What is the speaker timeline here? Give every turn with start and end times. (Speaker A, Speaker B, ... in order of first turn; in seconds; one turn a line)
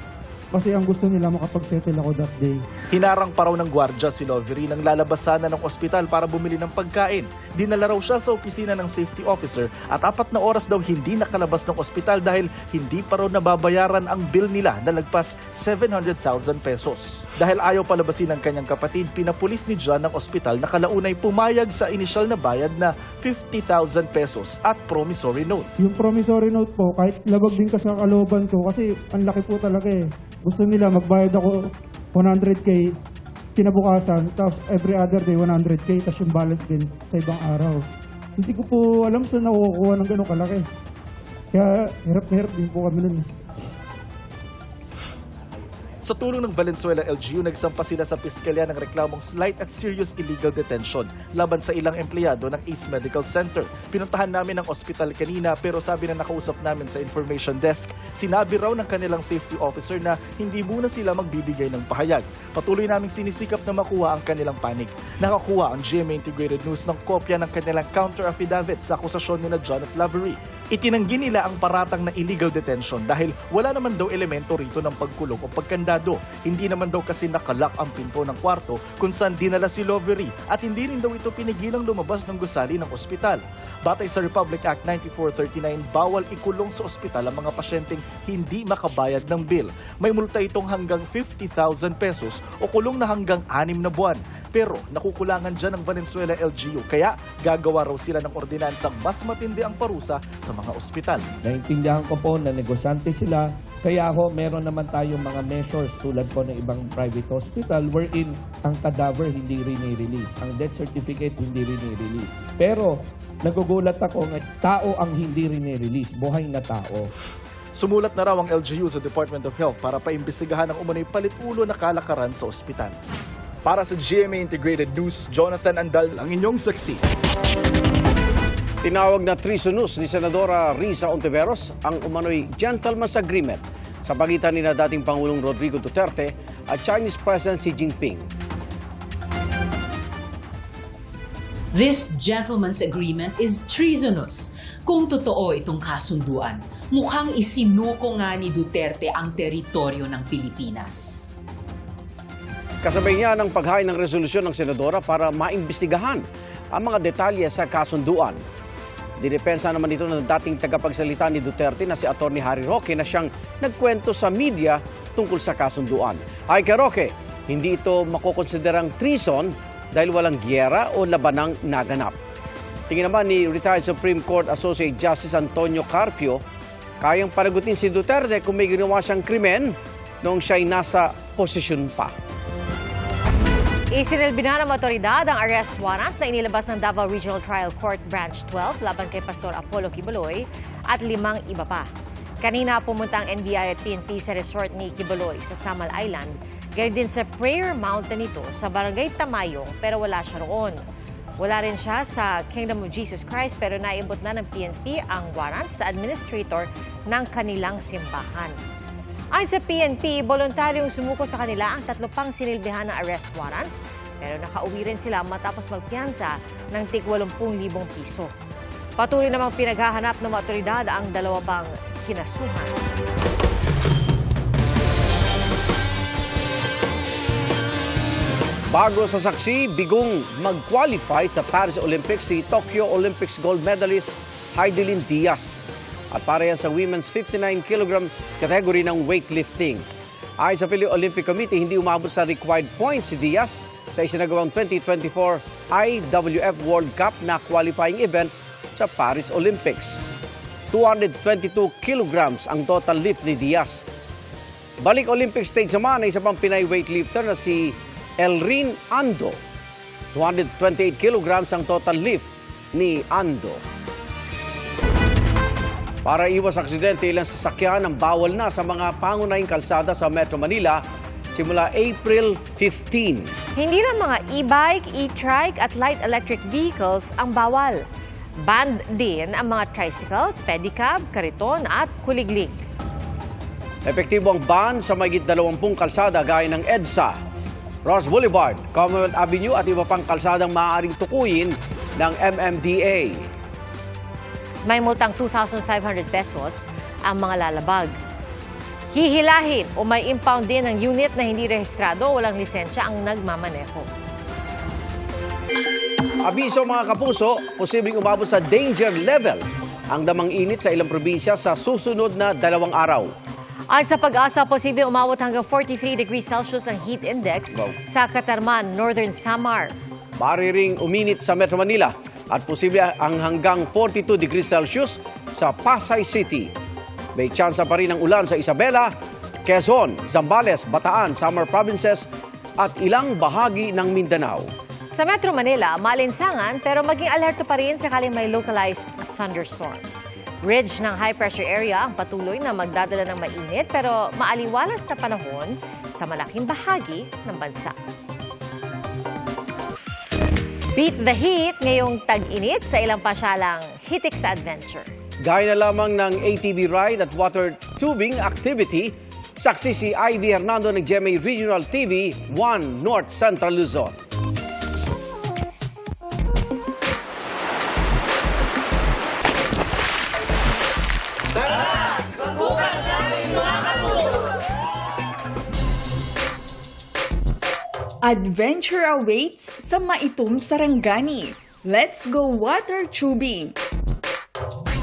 Speaker A: 0.5-2.6
Speaker B: 2.9-25.7
Speaker A: 25.8-31.6
Speaker A: 32.1-32.9
Speaker A: 33.6-37.8
Speaker A: 38.4-40.7
Speaker A: 41.5-43.2
Speaker B: 46.0-101.3
Speaker C: 101.4-112.9
Speaker C: 113.5-117.1
Speaker B: 117.8-122.9
Speaker B: 123.7-127.0
Speaker D: 128.8-138.3
Speaker E: 141.7-151.2
Speaker D: 152.8-158.4
Speaker D: 159.2-172.2
Speaker D: 172.9-176.4
Speaker D: 177.0-182.1
Speaker F: 183.9-191.9
Speaker F: 192.4-200.8
Speaker F: 201.4-208.6
Speaker F: 209.3-213.7
Speaker F: 214.2-218.3
Speaker F: 219.0-222.8
Speaker D: 228.7-235.6
Speaker D: 236.1-239.8
Speaker D: 240.4-250.0
Speaker D: 250.7-253.8
Speaker D: 254.8-259.4
Speaker D: 260.1-263.6
Speaker D: 266.1-270.8
Speaker D: 271.3-273.3
Speaker F: 273.6-277.8
Speaker F: 278.4-282.6
Speaker D: 283.9-287.1
Speaker D: 287.9-293.3
Speaker F: 294.6-297.9
Speaker F: 298.9-303.9
Speaker D: 306.2-313.1
Speaker F: 313.7-319.7
Speaker D: 320.2-326.5
Speaker D: 327.2-328.9
Speaker D: 329.5-332.1
Speaker D: 332.6-334.5
Speaker F: 334.9-347.8
Speaker F: 350.8-354.9
Speaker D: 355.2-363.9
Speaker G: 378.0-383.6